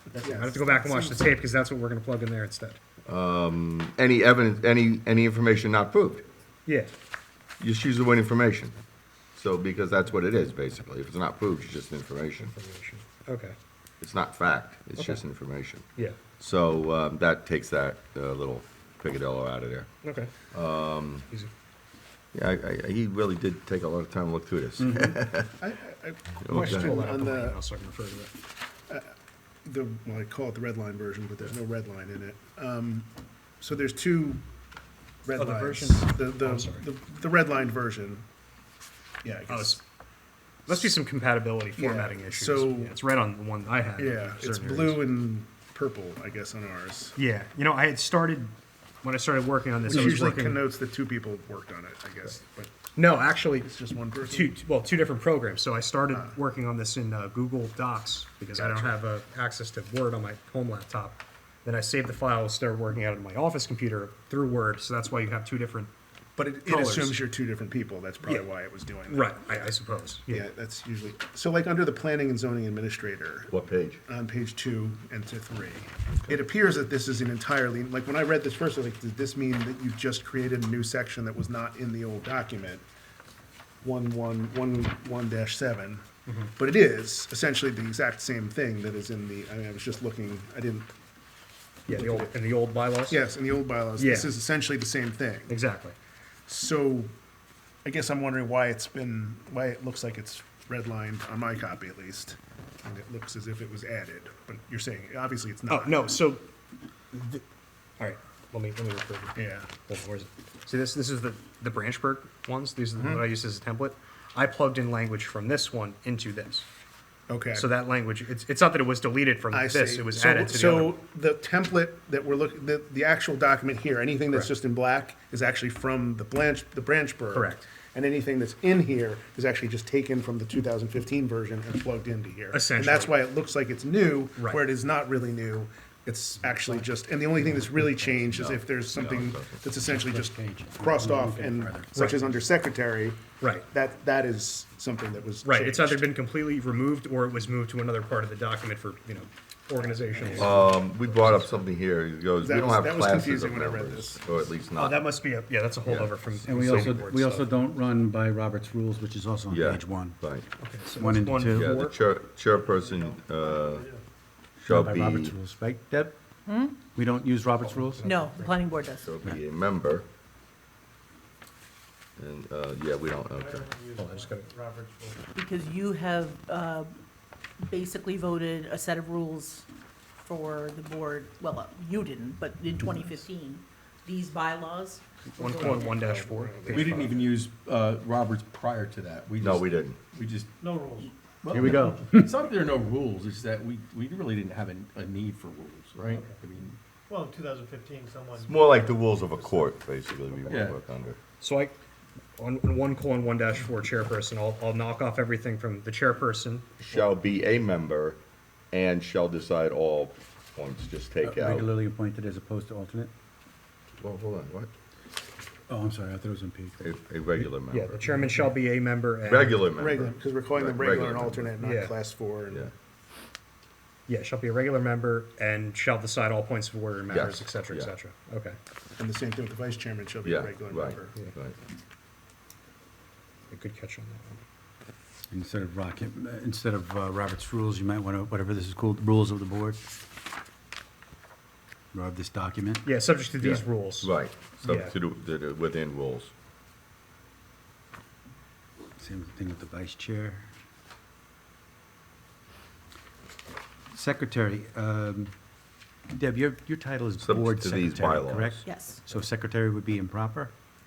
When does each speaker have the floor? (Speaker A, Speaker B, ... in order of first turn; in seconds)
Speaker A: 0.1-0.4, 186.7-196.8, 200.5-200.8
Speaker B: 0.2-1.2, 25.6-27.6, 29.6-33.1, 33.6-34.4, 35.2-38.2, 39.2-39.8, 41.8-42.9, 44.0-47.1, 49.8-52.7, 53.6-54.5, 58.5-59.0, 66.4-69.8, 70.3-73.5, 74.1-82.8, 83.8-86.0, 86.5-90.9, 91.9-92.3, 93.1-95.5, 96.5-97.1, 97.8-106.1, 109.4-109.7, 113.0-113.2, 117.3-117.7, 119.5-146.0, 150.1-150.6, 152.4-154.2, 185.6-187.3, 219.8-222.7, 229.0-231.2
Speaker C: 0.2-2.8, 6.7-6.9, 12.4-13.5, 20.0-20.3, 26.5-28.3, 35.3-36.9, 39.5-39.8, 40.7-45.0, 47.2-50.6, 53.0-53.7, 54.3-65.9, 66.7-67.2, 69.0-70.4, 91.9-93.2, 94.0-94.3, 95.5-95.9, 105.7-106.5, 107.1-107.4, 108.0-116.7, 117.5-120.9, 127.3-127.7, 132.5-133.1, 143.4-143.7, 145.4-151.5, 154.8-157.5, 160.6-161.9, 167.6-168.6, 173.9-174.5, 185.4-187.2, 201.4-201.8, 202.4-206.7, 217.7-219.6, 221.6-221.9, 224.1-228.6, 233.5-234.4, 242.8-244.9
Speaker D: 3.1-6.2, 7.6-8.8, 9.3-12.5, 14.0-19.9, 20.5-21.3, 22.3-25.5, 26.4-27.0, 73.5-74.0, 138.2-139.7, 150.3-155.2, 155.8-157.0, 159.5-160.5, 161.4-163.9, 164.6-165.3, 168.9-170.1, 172.2-173.7, 189.4-190.0, 198.4-201.2, 206.8-208.2, 208.7-211.7, 214.0-214.7, 216.8-218.2, 219.2-221.6, 227.1-227.9, 230.2-231.6, 243.3-246.3, 257.2-258.7
Speaker E: 24.8-25.1, 136.6-136.8, 137.5-138.2, 139.8-142.1, 156.4-160.2, 161.0-161.8, 164.7-166.2, 166.9-168.1, 191.5-192.3, 211.2-213.1, 215.7-216.9, 218.0-218.5, 235.3-239.8, 241.9-242.9, 249.0-250.5, 253.9-255.3, 256.1-260.5
Speaker F: 162.6-164.0, 173.3-175.2, 190.6-191.1, 197.1-199.0
Speaker G: 166.5-166.8, 168.0-169.1, 175.3-177.0, 177.6-179.7, 180.2-186.0, 258.6-259.0